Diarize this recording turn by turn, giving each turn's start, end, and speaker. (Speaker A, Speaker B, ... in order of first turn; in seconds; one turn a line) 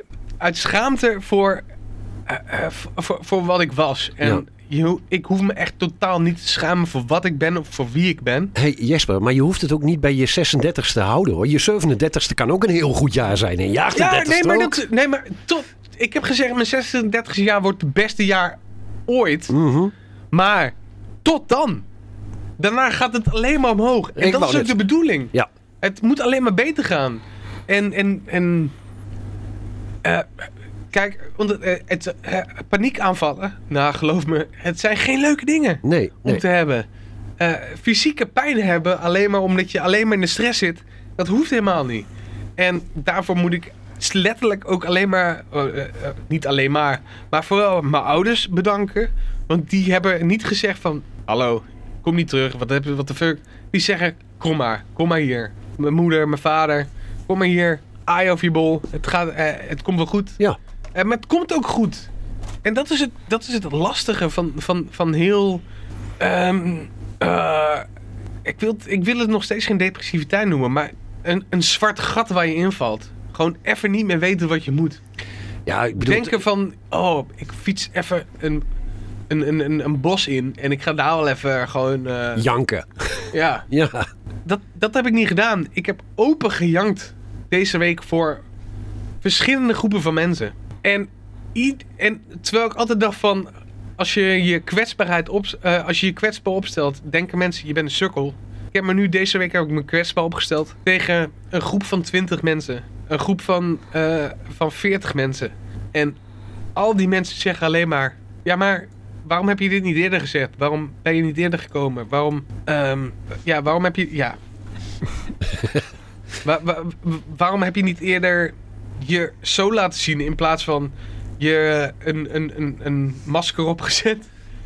Speaker A: 0.4-1.6
Speaker A: 2.3-8.5
Speaker B: 8.5-14.8
Speaker A: 13.9-19.5
Speaker B: 19.5-19.9
Speaker A: 20.3-21.8
Speaker A: 22.6-28.7
Speaker B: 24.2-25.5
Speaker A: 30.0-36.9
Speaker B: 35.8-36.4
Speaker A: 37.4-42.1
Speaker A: 42.6-60.4
Speaker A: 60.9-62.1
Speaker A: 62.6-65.6
Speaker A: 66.2-67.8
Speaker A: 68.4-75.0
Speaker B: 75.7-76.4
Speaker A: 76.0-78.6
Speaker A: 79.3-82.4
Speaker B: 82.4-84.1
Speaker A: 83.3-83.6
Speaker A: 84.5-88.4
Speaker A: 89.2-106.2
Speaker A: 106.8-114.4
Speaker A: 116.4-124.2